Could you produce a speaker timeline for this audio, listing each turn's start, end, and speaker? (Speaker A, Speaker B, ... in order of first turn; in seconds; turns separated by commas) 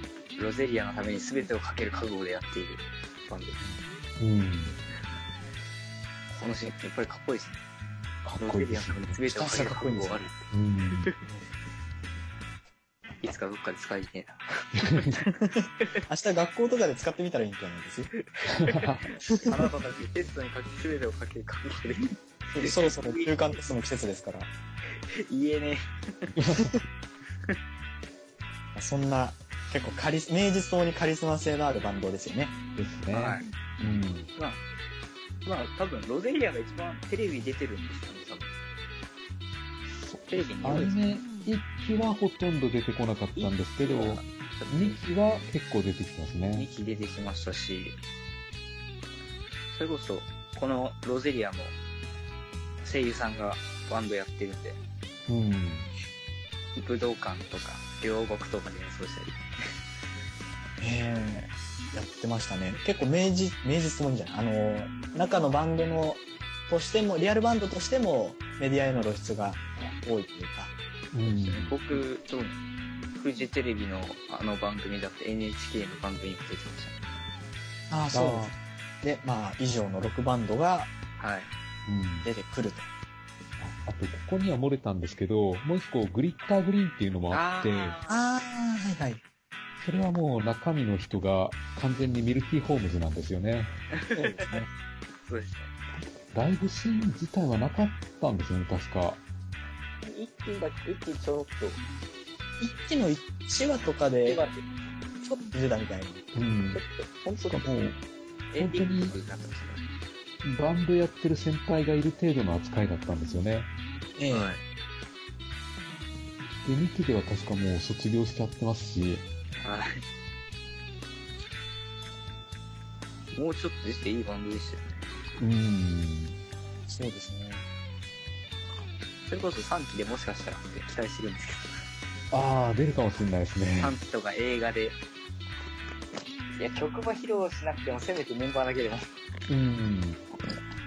Speaker A: 0.4-3.6, Speaker B: 4.2-4.8, Speaker A: 6.3-7.6, Speaker B: 8.2-9.2, Speaker A: 8.4-10.4, Speaker C: 9.4-10.3, Speaker B: 10.5-11.1, Speaker A: 13.2-15.3, Speaker B: 14.8-15.2, Speaker C: 15.5-18.1, Speaker A: 18.3-18.9, Speaker B: 18.5-19.1, Speaker A: 19.5-23.3, Speaker C: 22.6-24.5, Speaker A: 25.1-26.8, Speaker B: 26.4-26.7, Speaker C: 28.8-32.5, Speaker B: 32.8-34.3, Speaker A: 33.1-33.5, Speaker A: 35.5-38.5, Speaker B: 39.9-46.7, Speaker A: 40.3-41.0, Speaker A: 43.4-45.0, Speaker A: 46.5-48.0, Speaker A: 49.7-51.8, Speaker A: 52.8-54.8, Speaker B: 55.3-55.9, Speaker A: 56.8-59.4, Speaker C: 60.8-70.7, Speaker B: 71.1-71.7, Speaker A: 71.3-72.6, Speaker A: 73.2-77.0, Speaker C: 77.9-80.9, Speaker B: 78.1-78.5, Speaker A: 81.2-81.5, Speaker B: 81.9-82.3, Speaker C: 82.2-82.9, Speaker B: 83.6-88.0, Speaker A: 87.3-88.2, Speaker C: 88.1-89.2, Speaker B: 89.8-93.7, Speaker A: 93.9-94.6, Speaker C: 94.1-94.7, Speaker A: 95.3-95.7, Speaker B: 96.3-99.2, Speaker A: 100.0-101.8, Speaker C: 102.6-104.4, Speaker A: 104.2-104.7, Speaker C: 105.2-106.2, Speaker B: 106.3-106.8, Speaker A: 106.7-107.8, Speaker B: 107.5-108.0, Speaker A: 108.5-109.9, Speaker B: 108.6-109.2, Speaker B: 110.4-113.7, Speaker C: 114.2-114.6, Speaker A: 114.3-114.6, Speaker B: 116.7-119.3, Speaker A: 119.6-120.0, Speaker A: 123.3-125.1, Speaker B: 125.4-126.4, Speaker C: 126.9-127.7, Speaker A: 129.3-131.8, Speaker B: 132.3-133.9, Speaker A: 133.8-135.0, Speaker A: 136.6-139.1, Speaker B: 139.5-140.2